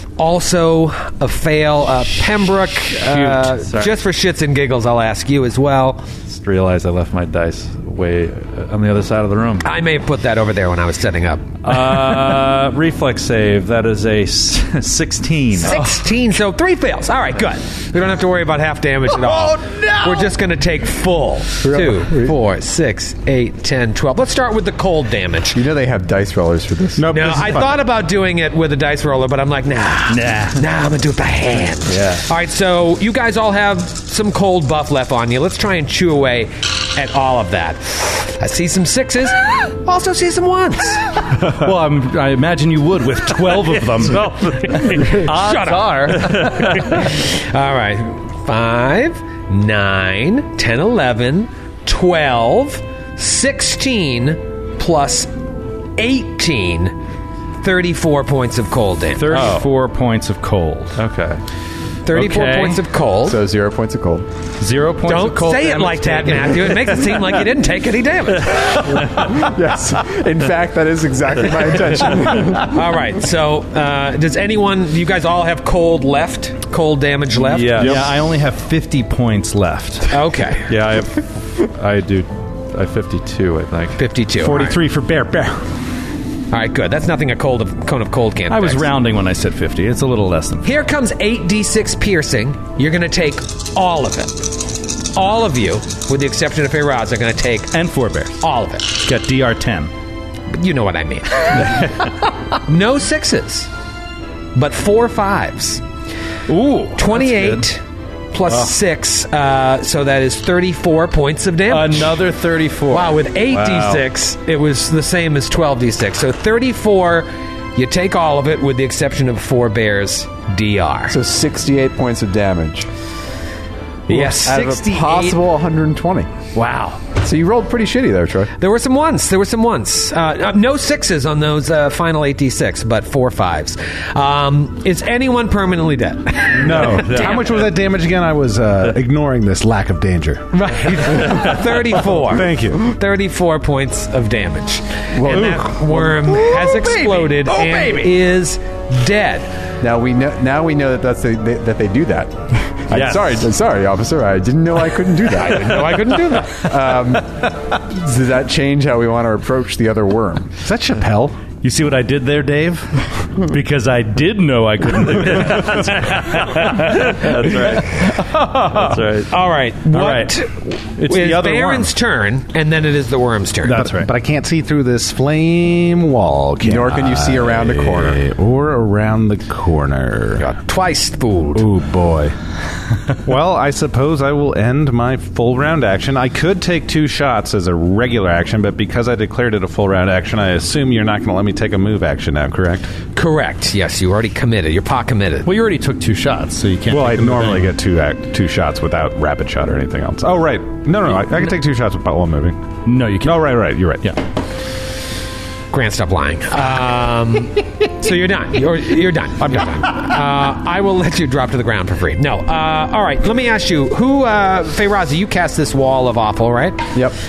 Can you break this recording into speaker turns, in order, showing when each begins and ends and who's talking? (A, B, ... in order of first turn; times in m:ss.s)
0:00.2-0:06.0 A
0:03.1-0:03.5 B
0:03.7-0:03.9 C
0:06.3-0:09.7 C
0:09.6-0:11.5 A
0:11.6-0:15.8 C
0:15.6-0:25.6 A
0:19.1-0:20.3 B
0:21.6-0:22.4 D
0:25.5-0:27.1 D
0:27.0-0:27.8 E
0:27.1-0:41.1 A
0:30.1-0:30.6 B
0:41.4-0:47.0 B
0:44.0-0:45.1 C
0:44.1-0:55.3 A
0:46.3-0:46.8 C
0:56.0-0:57.0 A
0:57.6-0:59.5 A
0:59.2-1:01.0 B
0:59.3-0:59.7 C
1:01.0-1:01.4 C
1:02.1-1:03.4 A
1:02.1-1:02.8 B
1:03.2-1:04.3 D
1:04.6-1:07.0 B
1:05.0-1:08.9 A
1:08.6-1:09.3 C
1:09.1-1:12.7 D
1:12.6-1:17.9 A
1:17.5-1:18.0 C
1:17.8-1:18.0 E
1:17.8-1:20.1 B
1:20.1-1:20.7 A
1:20.7-1:24.0 C
1:24.0-1:24.8 A
1:24.4-1:25.5 B
1:24.5-1:24.8 E
1:26.5-1:28.9 A
1:28.5-1:30.7 B
1:30.6-1:37.8 A
1:37.7-1:38.4 B
1:38.4-1:38.9 A
1:39.0-1:39.9 B
1:40.5-1:42.0 A
1:41.7-1:42.1 B
1:42.6-1:43.7 A
1:44.6-1:45.8 A
1:46.5-1:47.6 B
1:47.0-1:52.2 A
1:51.7-1:53.2 B
1:52.9-2:01.2 A
1:53.6-1:54.0 C
2:01.1-2:02.9 D
2:04.1-2:05.4 A
2:04.1-2:06.3 D
2:06.6-2:07.0 A
2:07.2-2:08.5 D
2:08.6-2:17.6 A
2:16.5-2:22.9 E
2:16.8-2:17.6 C
2:20.5-2:29.5 A
2:21.2-2:21.5 C
2:25.2-2:25.8 D
2:25.5-2:28.2 B
2:29.8-2:40.5 D
2:32.9-2:33.5 B
2:35.4-2:36.7 A
2:40.6-2:41.4 E
2:41.6-2:48.3 B
2:45.2-2:48.1 C
2:48.7-2:53.8 A
2:48.7-2:49.3 C
2:49.9-2:50.4 B
2:51.0-2:51.9 B
2:53.7-2:54.1 B
2:53.7-3:00.5 E
2:56.6-2:58.2 D
3:00.4-3:01.7 A
3:01.6-3:02.4 E
3:03.2-3:12.9 E
3:13.1-3:15.5 A
3:15.4-3:17.7 B
3:16.9-3:22.6 E
3:22.9-3:24.2 B
3:23.2-3:24.1 E
3:25.7-3:37.0 A